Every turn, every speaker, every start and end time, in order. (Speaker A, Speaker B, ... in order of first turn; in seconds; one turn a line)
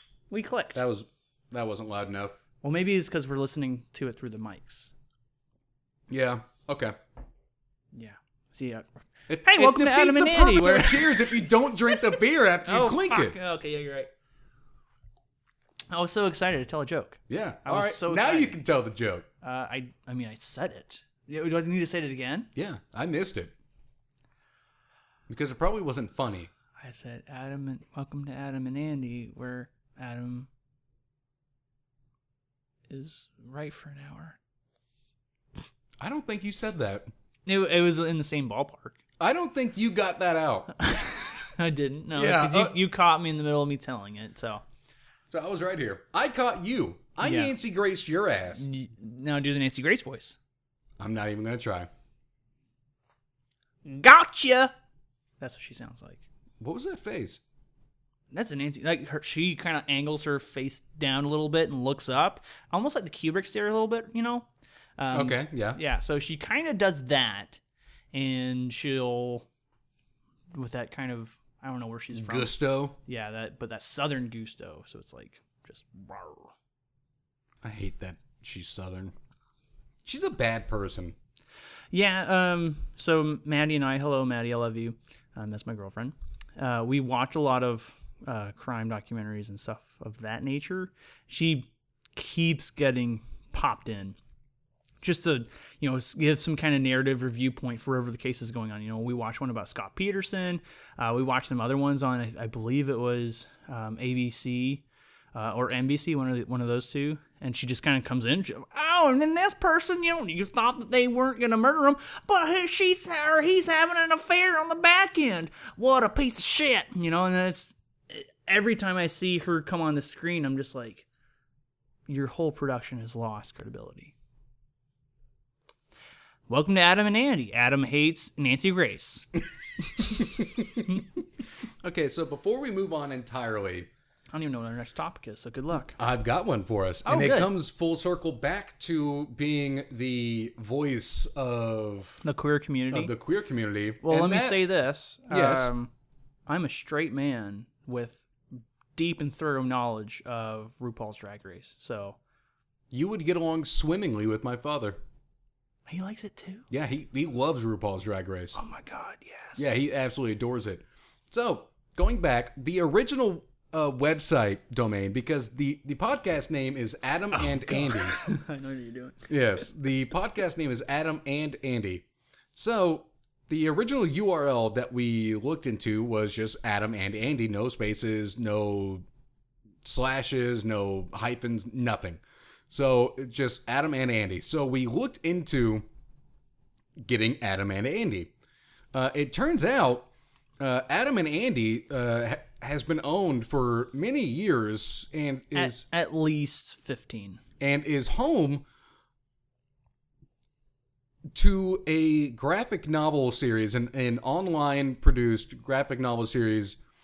Speaker A: 0.3-0.8
Speaker B: 0.8-2.4
Speaker A: 2.6-4.9
Speaker B: 6.1-7.0
Speaker A: 7.9-8.9
Speaker B: 9.3-13.4
Speaker A: 9.4-12.1
Speaker A: 12.7-14.1
Speaker A: 15.9-18.6
Speaker B: 17.3-19.3
Speaker A: 19.4-22.5
Speaker B: 22.6-23.5
Speaker B: 25.3-26.5
Speaker A: 26.8-30.5
Speaker A: 32.9-34.4
Speaker B: 36.0-37.1
Speaker A: 37.5-39.0
Speaker B: 39.2-40.7
Speaker A: 40.7-44.6
Speaker B: 42.2-42.8
Speaker B: 45.3-48.7
Speaker A: 47.2-47.5
Speaker A: 48.5-50.4
Speaker B: 51.0-51.9
Speaker A: 53.8-54.7
Speaker A: 55.4-56.2
Speaker B: 56.6-57.4
Speaker A: 58.3-67.6
Speaker B: 65.1-65.8
Speaker A: 68.1-69.5
Speaker A: 70.5-72.5
Speaker B: 72.1-73.0
Speaker A: 73.1-76.5
Speaker B: 77.6-79.1
Speaker B: 80.0-81.2
Speaker A: 81.9-94.2
Speaker A: 95.0-121.1
Speaker A: 122.1-124.1
Speaker A: 126.5-129.3
Speaker B: 130.0-131.1
Speaker B: 131.8-133.9
Speaker A: 134.3-136.0
Speaker B: 136.0-142.2
Speaker A: 137.1-137.5
Speaker A: 142.2-143.1
Speaker B: 142.9-144.6
Speaker A: 144.0-145.9
Speaker B: 145.3-145.7
Speaker A: 146.5-148.2
Speaker A: 148.9-152.2
Speaker B: 152.9-155.0
Speaker A: 155.9-156.7
Speaker B: 156.7-158.6
Speaker A: 158.6-159.8
Speaker B: 159.6-168.2
Speaker A: 167.4-169.3
Speaker B: 169.3-179.1
Speaker B: 179.8-185.8
Speaker B: 187.0-188.3
Speaker B: 188.9-195.8
Speaker A: 195.5-197.4
Speaker B: 197.6-198.7
Speaker B: 201.3-206.8